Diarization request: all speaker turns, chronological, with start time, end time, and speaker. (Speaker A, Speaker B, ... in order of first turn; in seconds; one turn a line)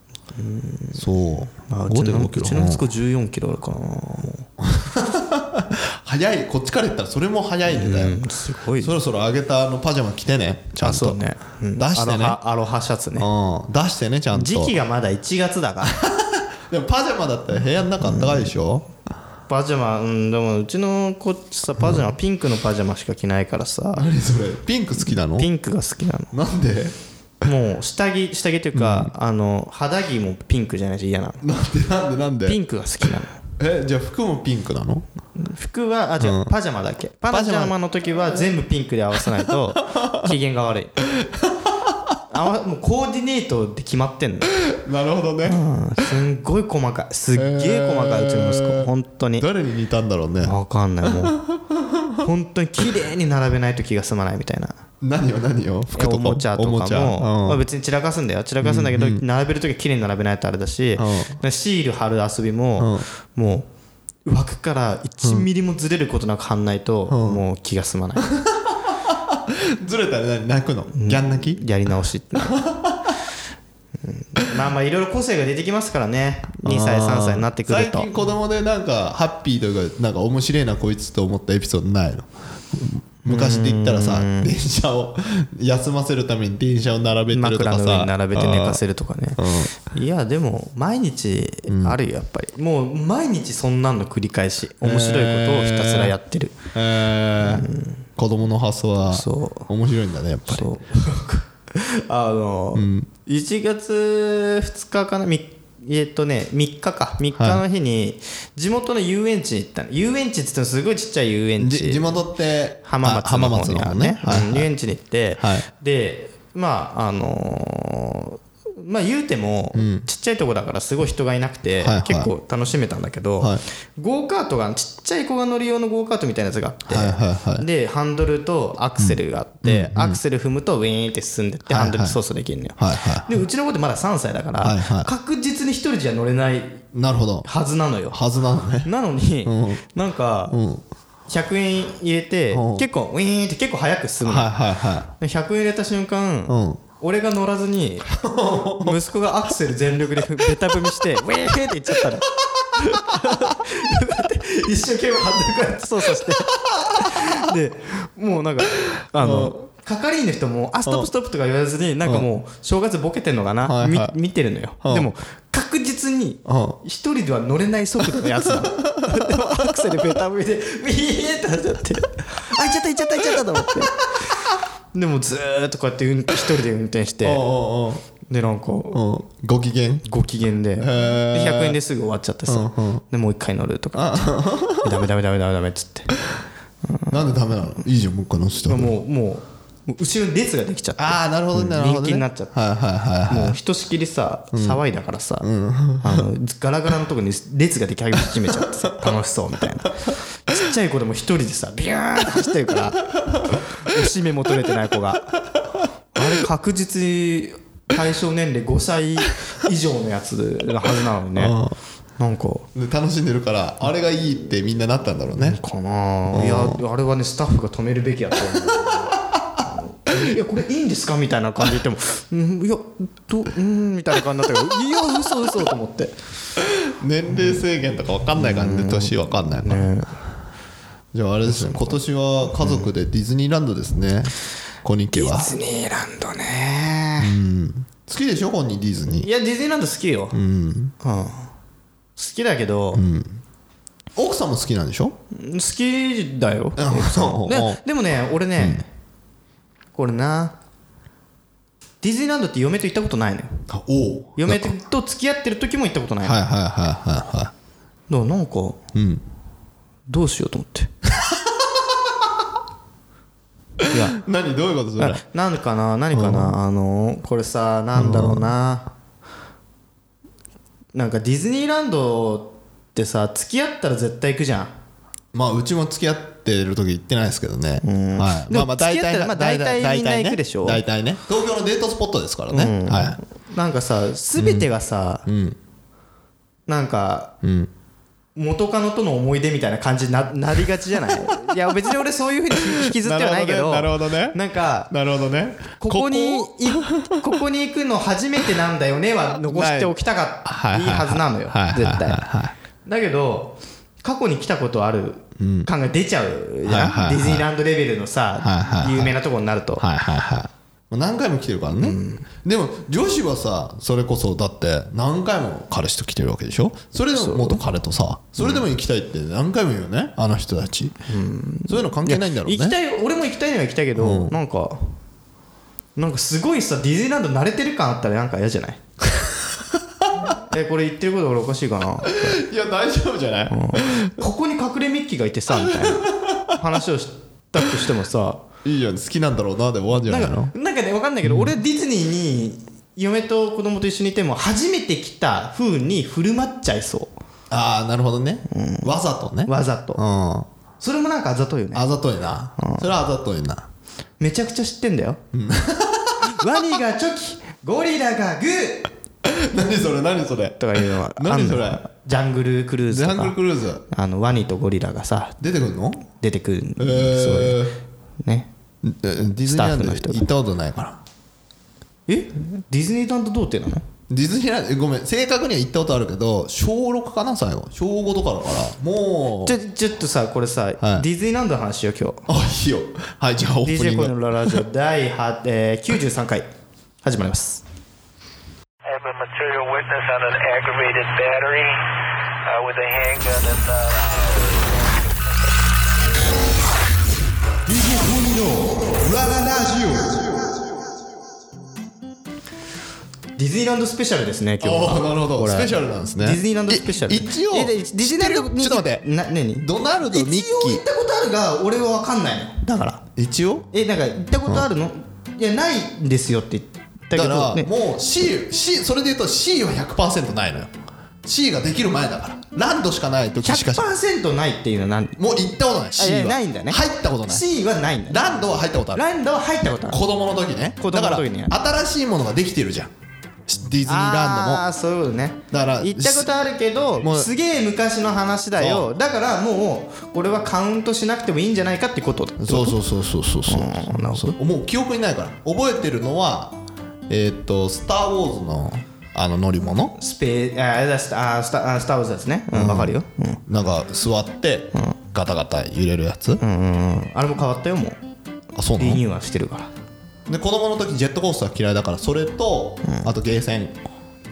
Speaker A: 0.3-1.0
Speaker B: 0.9-2.8
Speaker A: 1.7-4.5
Speaker B: 4.6-8.2
Speaker A: 7.7-8.9
Speaker B: 8.8-11.2
Speaker A: 10.8-13.3
Speaker B: 11.8-12.4
Speaker B: 13.2-14.8
Speaker A: 14.3-16.0
Speaker B: 15.9-18.9
Speaker A: 18.0-18.5
Speaker A: 19.5-24.1
Speaker B: 21.8-22.1
Speaker B: 23.9-25.5
Speaker A: 25.1-26.3
Speaker B: 26.3-26.9
Speaker A: 27.4-31.4
Speaker B: 28.7-29.1
Speaker B: 31.4-32.6
Speaker A: 32.4-33.4
Speaker B: 33.6-35.0
Speaker A: 35.4-41.0
Speaker B: 36.2-36.5
Speaker B: 37.3-38.5
Speaker B: 39.4-40.3
Speaker B: 41.2-42.0
Speaker A: 42.3-44.5
Speaker B: 44.6-45.6
Speaker A: 45.5-49.5
Speaker B: 47.4-52.2
Speaker A: 50.4-51.4
Speaker A: 52.2-54.8
Speaker B: 55.0-57.6
Speaker A: 55.9-63.7
Speaker B: 58.6-59.2
Speaker B: 61.0-61.4
Speaker B: 62.8-63.0
Speaker A: 64.2-68.3
Speaker B: 67.1-67.4
Speaker B: 68.2-71.6
Speaker A: 70.9-72.6
Speaker B: 72.4-73.2
Speaker A: 74.0-78.1
Speaker B: 76.6-88.8
Speaker A: 83.2-84.5
Speaker A: 87.3-96.5
Speaker B: 89.4-89.7
Speaker B: 91.7-92.0
Speaker B: 94.8-96.1
Speaker B: 96.7-100.7
Speaker A: 97.4-98.0
Speaker A: 99.1-99.7
Speaker A: 100.5-112.1
Speaker B: 102.7-103.1
Speaker B: 107.3-107.6
Speaker B: 111.6-114.7
Speaker A: 112.8-136.8
Speaker B: 115.4-115.7
Speaker B: 119.7-120.0
Speaker B: 121.8-122.3
Speaker B: 126.9-127.7
Speaker B: 129.0-130.2
Speaker B: 131.7-132.2
Speaker B: 132.8-133.4
Speaker B: 134.6-135.1
Speaker B: 136.9-137.5
Speaker A: 137.4-138.2
Speaker B: 138.1-138.9
Speaker A: 138.8-140.6
Speaker B: 139.4-139.8
Speaker B: 140.5-140.8
Speaker A: 141.3-144.5
Speaker B: 142.5-142.8
Speaker B: 144.2-145.1
Speaker A: 145.2-148.1
Speaker B: 146.5-146.8
Speaker B: 148.1-149.0
Speaker A: 148.8-177.4
Speaker B: 153.1-153.6
Speaker B: 156.1-157.3
Speaker B: 159.2-159.6
Speaker B: 163.6-164.1
Speaker B: 164.8-165.1
Speaker B: 166.4-166.8
Speaker B: 168.1-170.2
Speaker B: 173.2-174.2
Speaker B: 177.2-178.0
Speaker A: 178.3-179.0
Speaker B: 178.9-180.1
Speaker A: 180.0-186.2
Speaker B: 180.8-181.8
Speaker B: 182.5-183.0
Speaker B: 183.9-185.0
Speaker A: 186.9-187.2
Speaker B: 187.1-188.9
Speaker A: 188.7-192.5
Speaker B: 191.0-193.6
Speaker A: 193.3-195.5
Speaker B: 194.5-194.8
Speaker B: 195.4-196.2
Speaker A: 196.0-205.3
Speaker B: 203.2-203.6
Speaker A: 206.1-211.6
Speaker B: 211.3-211.8
Speaker A: 212.2-212.7
Speaker B: 212.7-215.6
Speaker A: 215.4-219.1
Speaker B: 216.3-216.8
Speaker A: 219.7-226.2
Speaker B: 226.8-229.8
Speaker A: 228.4-230.2
Speaker B: 231.1-234.3
Speaker A: 231.4-232.0
Speaker A: 232.6-232.9
Speaker B: 234.8-235.6
Speaker A: 235.1-237.3
Speaker B: 237.2-239.3
Speaker A: 239.1-240.4
Speaker B: 240.3-240.9
Speaker A: 241.0-241.5
Speaker A: 242.2-243.0
Speaker B: 242.9-243.4
Speaker B: 244.2-245.2
Speaker A: 245.3-248.9
Speaker B: 246.8-247.8
Speaker B: 248.6-248.8
Speaker A: 249.9-250.6
Speaker A: 252.0-253.7
Speaker B: 253.7-254.8
Speaker A: 254.4-256.4
Speaker B: 256.2-257.5
Speaker A: 258.1-258.8
Speaker B: 258.9-259.2
Speaker A: 260.1-260.9
Speaker B: 261.2-262.3
Speaker A: 263.9-264.2
Speaker B: 264.1-265.2
Speaker A: 265.0-268.9
Speaker B: 266.1-266.6
Speaker B: 267.9-268.5
Speaker A: 270.9-274.7
Speaker B: 275.3-283.2
Speaker A: 277.8-280.8
Speaker A: 282.5-285.2
Speaker B: 284.4-284.7
Speaker B: 285.2-285.6
Speaker A: 286.7-287.3
Speaker B: 287.4-287.7
Speaker A: 288.3-294.9
Speaker B: 292.5-294.4
Speaker B: 294.9-297.2
Speaker A: 295.8-302.2
Speaker B: 299.4-302.5
Speaker A: 302.9-309.8
Speaker B: 305.4-305.7
Speaker B: 306.6-307.4
Speaker B: 308.4-309.2
Speaker B: 309.8-321.0
Speaker A: 311.8-312.2
Speaker A: 317.1-317.6
Speaker A: 321.1-325.0
Speaker B: 321.7-322.8
Speaker B: 323.9-324.4
Speaker A: 325.9-328.8
Speaker A: 330.4-332.4
Speaker B: 332.0-334.1
Speaker A: 333.5-338.4
Speaker B: 335.5-336.8
Speaker B: 338.6-340.5
Speaker A: 340.0-347.1
Speaker B: 341.2-341.5
Speaker B: 347.5-350.5
Speaker A: 348.5-348.9
Speaker A: 349.4-350.0
Speaker A: 350.8-351.8
Speaker B: 351.7-353.7
Speaker A: 352.6-352.9
Speaker A: 354.2-355.2
Speaker B: 355.3-356.4
Speaker A: 356.2-358.9
Speaker B: 359.2-361.8
Speaker A: 360.6-363.4
Speaker B: 362.9-363.8
Speaker A: 363.9-365.4
Speaker B: 365.4-366.1
Speaker A: 366.1-367.6
Speaker B: 366.8-367.8
Speaker A: 368.2-368.5
Speaker B: 368.8-371.0
Speaker A: 369.5-370.3
Speaker A: 372.1-373.8
Speaker B: 374.1-379.6
Speaker A: 379.4-382.3
Speaker B: 380.8-381.1
Speaker B: 382.3-384.6
Speaker A: 383.6-386.5
Speaker A: 387.0-387.6
Speaker C: 388.8-391.9
Speaker C: 392.4-394.8
Speaker B: 397.8-400.1
Speaker A: 399.3-399.8
Speaker A: 403.4-413.0
Speaker B: 404.6-409.0
Speaker B: 409.6-410.8
Speaker B: 413.1-413.7
Speaker A: 413.7-417.7
Speaker B: 417.1-420.7
Speaker B: 421.2-423.9
Speaker A: 423.4-425.2
Speaker B: 425.2-427.4
Speaker A: 426.0-428.3
Speaker B: 428.1-429.0
Speaker A: 428.9-430.0
Speaker B: 429.8-432.9
Speaker A: 430.8-431.5
Speaker B: 433.5-434.6
Speaker A: 433.8-442.8
Speaker B: 435.5-436.3
Speaker B: 437.0-437.3
Speaker B: 438.6-438.9
Speaker B: 442.4-446.6
Speaker A: 443.5-444.4
Speaker B: 447.1-449.9
Speaker A: 450.0-453.4
Speaker B: 452.5-452.9
Speaker B: 453.5-456.4
Speaker A: 456.4-458.0
Speaker B: 458.6-459.0
Speaker A: 458.8-459.7
Speaker B: 460.3-463.8